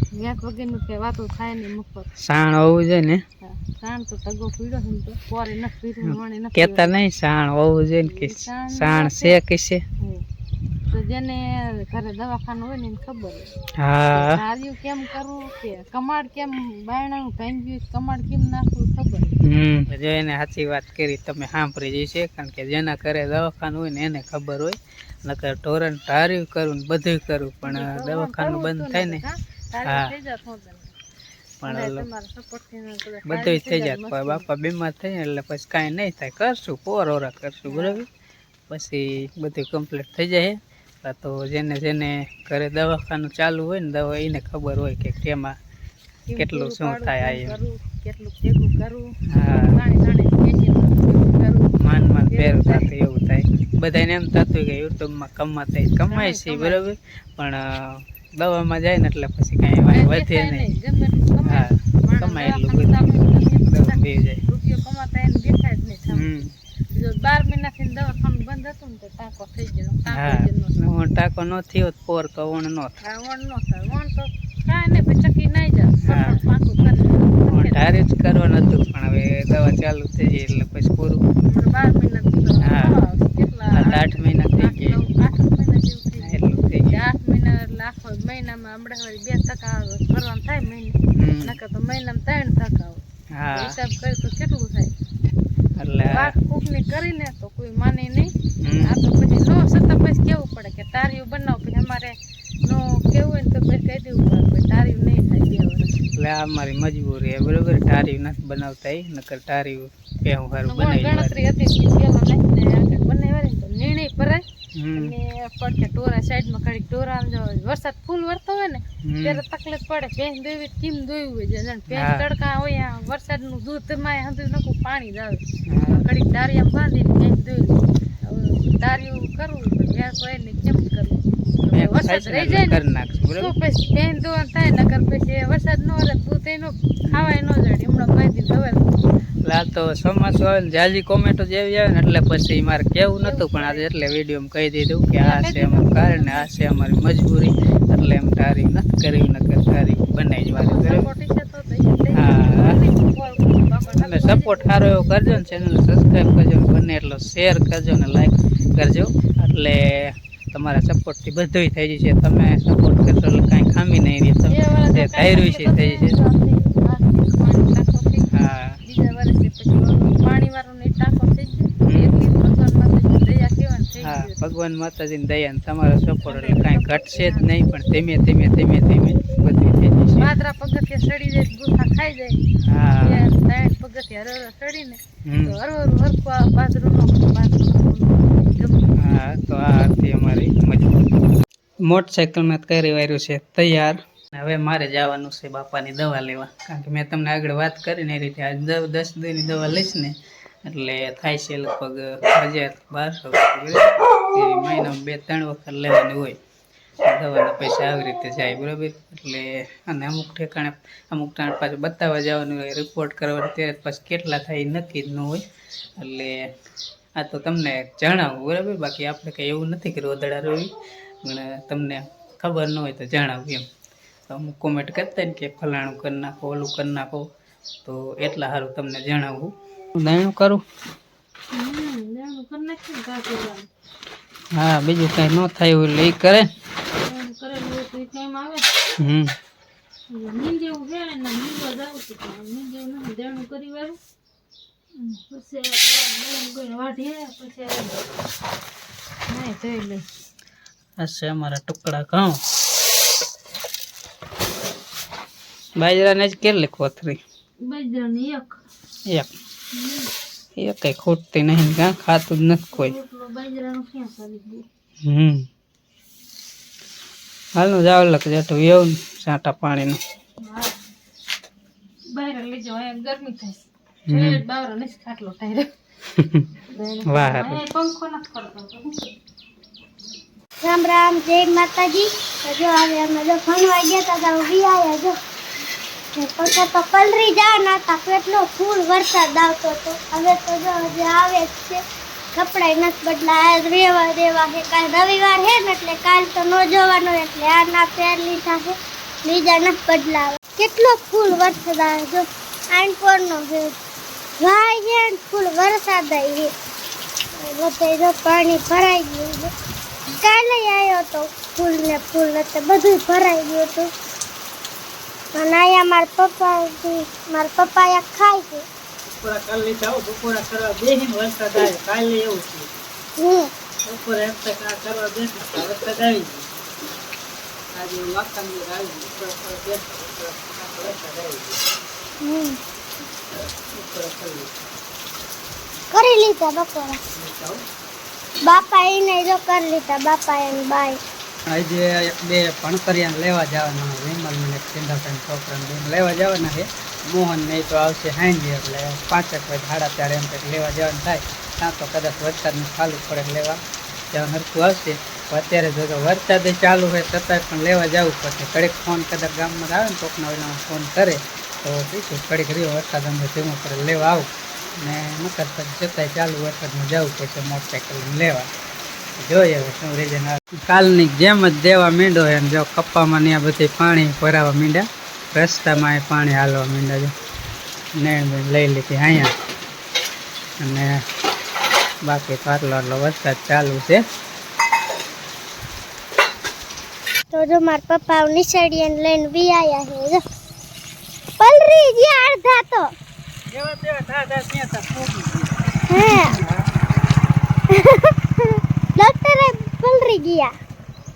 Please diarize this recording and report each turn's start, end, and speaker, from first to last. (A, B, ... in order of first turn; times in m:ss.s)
0:00.1-0:02.1 A
0:02.2-0:03.2 B
0:03.4-0:07.1 A
0:06.0-0:09.8 B
0:08.0-0:09.4 A
0:10.9-0:13.5 A
0:13.8-0:14.4 B
0:14.1-0:19.4 A
0:19.4-0:29.2 B
0:27.6-0:30.9 A
0:29.8-0:30.1 B
0:31.6-0:32.0 B
0:31.6-0:34.5 A
0:33.2-0:38.1 B
0:37.7-0:38.0 A
0:38.7-0:45.6 B
0:46.3-0:49.1 A
0:46.4-0:47.5 B
0:49.3-0:49.8 B
0:49.7-0:52.9 A
0:51.8-1:00.7 B
0:56.1-0:56.8 A
0:59.9-1:06.2 A
1:01.4-1:04.4 B
1:06.1-1:06.5 B
1:06.9-1:10.8 A
1:10.1-1:13.0 B
1:13.0-1:17.9 A
1:16.0-1:16.4 B
1:17.4-1:21.2 B
1:21.5-1:34.9 A
1:22.6-1:22.9 B
1:23.7-1:25.0 B
1:26.2-1:27.0 B
1:31.1-1:31.6 B
1:33.3-1:33.8 B
1:35.8-1:36.3 B
1:36.0-1:45.9 A
1:38.6-1:39.0 B
1:46.1-1:51.4 B
1:50.6-2:12.8 A
1:54.7-1:55.1 B
1:59.0-1:59.4 B
2:01.9-2:02.2 B
2:05.7-2:06.1 B
2:11.6-2:13.5 B
2:13.3-2:19.0 A
2:19.4-2:31.1 B
2:23.2-2:23.8 A
2:25.2-2:26.5 A
2:30.6-2:34.7 A
2:32.1-2:32.8 B
2:34.0-2:46.2 B
2:44.5-2:48.3 A
2:48.3-2:48.8 B
2:48.8-2:54.4 A
2:51.8-2:52.2 B
2:54.0-3:00.3 B
2:56.2-2:57.5 A
3:00.2-3:02.4 A
3:02.6-3:03.2 B
3:03.0-3:08.8 A
3:05.2-3:05.6 B
3:09.0-3:10.9 B
3:11.8-3:20.1 B
3:20.6-3:26.4 B
3:27.0-3:35.4 B
3:36.0-3:36.4 B
3:37.2-3:40.7 B
3:41.2-3:43.7 B
3:44.3-3:47.2 B
3:47.8-3:50.6 B
3:51.5-3:53.7 A
3:54.5-3:56.5 B
3:56.9-3:58.7 A
3:59.0-3:59.3 B
4:00.1-4:04.0 A
4:04.9-4:08.0 A
4:09.3-4:10.0 A
4:11.0-4:12.4 B
4:15.8-4:17.2 B
4:17.6-4:18.6 A
4:19.7-4:20.1 A
4:20.6-4:22.9 B
4:22.7-4:24.6 A
4:25.0-4:25.4 B
4:27.6-4:30.0 B
4:30.4-4:30.7 A
4:32.1-4:35.7 A
4:34.1-4:34.4 B
4:36.2-4:36.5 B
4:36.7-4:39.1 A
4:37.1-4:37.6 B
4:40.6-4:45.2 C
4:46.1-4:51.8 C
4:52.3-5:03.7 C
5:04.4-5:06.5 C
5:07.3-5:09.5 C
5:10.1-5:13.9 C
5:15.3-5:18.6 C
5:19.0-5:22.7 B
5:23.2-5:23.5 C
5:23.8-5:26.5 B
5:27.7-5:31.6 B
5:32.2-5:32.6 C
5:33.7-5:34.5 B
5:35.9-5:37.0 C
5:37.1-5:37.6 B
5:38.4-5:41.0 C
5:41.4-5:53.6 B
5:54.1-6:08.5 B
6:09.2-6:17.1 B
6:18.0-6:19.3 B
6:20.6-6:20.9 B
6:22.0-6:24.0 B
6:27.3-6:30.2 C
6:31.4-6:32.9 C
6:33.5-6:36.6 B
6:35.9-6:36.4 C
6:37.7-6:40.5 C